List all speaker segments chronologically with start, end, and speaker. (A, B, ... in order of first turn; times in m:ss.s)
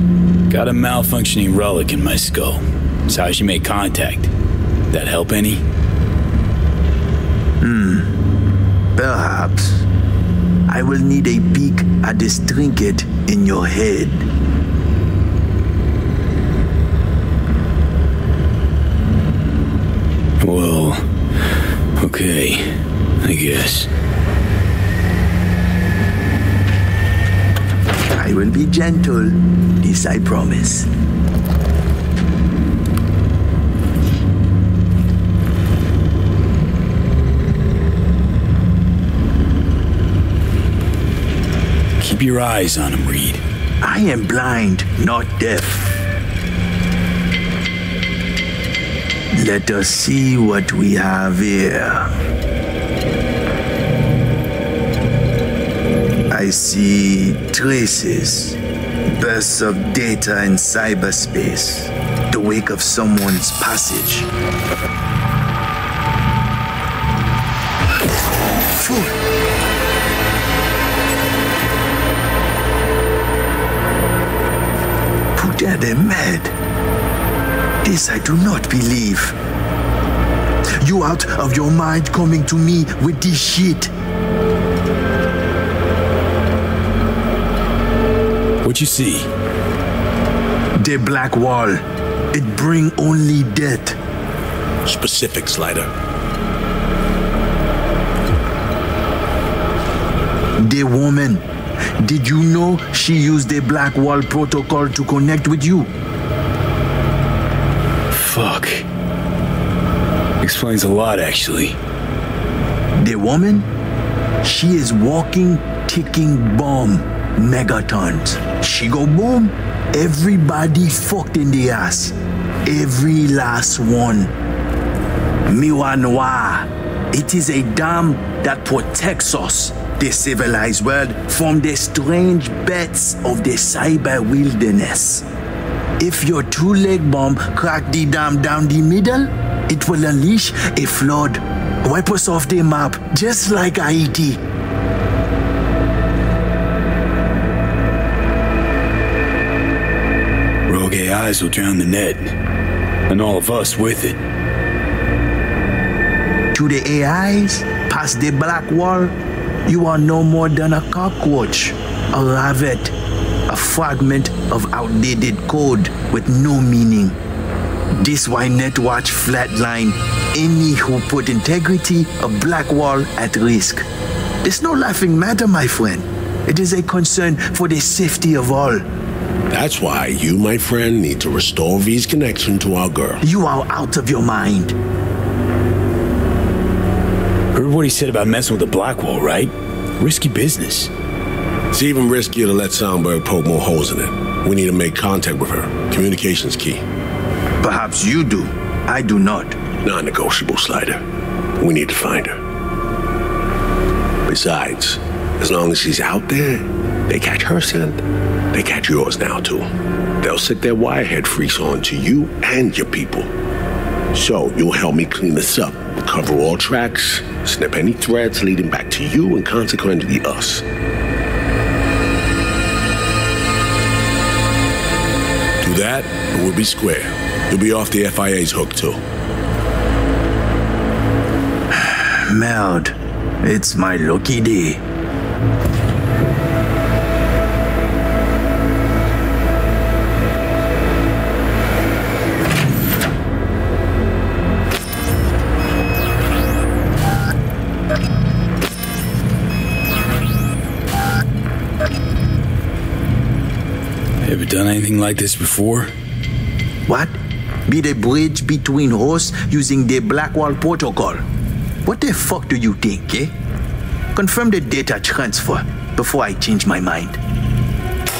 0:00.5-0:04.3 A
0:04.9-0:05.6 A
0:07.6-0:08.1 B
0:09.0-0:09.8 B
0:10.7-0:14.2 B
0:20.4-0:21.0 A
0:22.0-0:23.9 A
0:28.2-0:30.9 B
0:42.0-0:43.4 A
0:43.8-0:46.0 B
0:49.3-0:52.1 B
0:56.3-0:58.6 B
0:59.1-1:04.3 B
1:08.7-1:09.1 B
1:15.4-1:16.5 B
1:17.8-1:19.4 B
1:20.8-1:23.9 B
1:28.6-1:29.3 A
1:30.8-1:31.8 B
1:32.3-1:34.0 B
1:34.8-1:35.9 C
1:40.6-1:41.4 B
1:42.0-1:45.9 B
1:48.1-1:48.8 A
1:50.4-1:51.8 A
1:53.0-1:53.7 B
1:54.4-2:02.1 B
2:02.6-2:04.3 B
2:05.5-2:15.2 B
2:16.0-2:24.4 B
2:30.7-2:32.3 A
2:33.1-2:34.2 A
2:36.5-2:39.1 B
2:39.7-2:42.9 B
2:43.5-2:47.2 B
2:47.9-2:53.8 B
2:54.4-2:58.8 B
2:59.5-3:03.2 C
3:03.2-3:04.7 B
3:07.5-3:10.9 A
3:11.7-3:16.8 C
3:17.6-3:19.6 B
3:19.8-3:21.0 C
3:21.6-3:22.4 C
3:24.3-3:28.0 C
3:28.5-3:29.7 C
3:30.2-3:33.3 C
3:34.1-3:40.6 C
3:45.6-3:49.0 C
3:51.7-3:54.8 B
4:14.2-4:15.9 A
4:16.9-4:17.2 B
4:17.7-4:21.2 B
4:21.8-4:23.3 B
4:24.1-4:27.2 B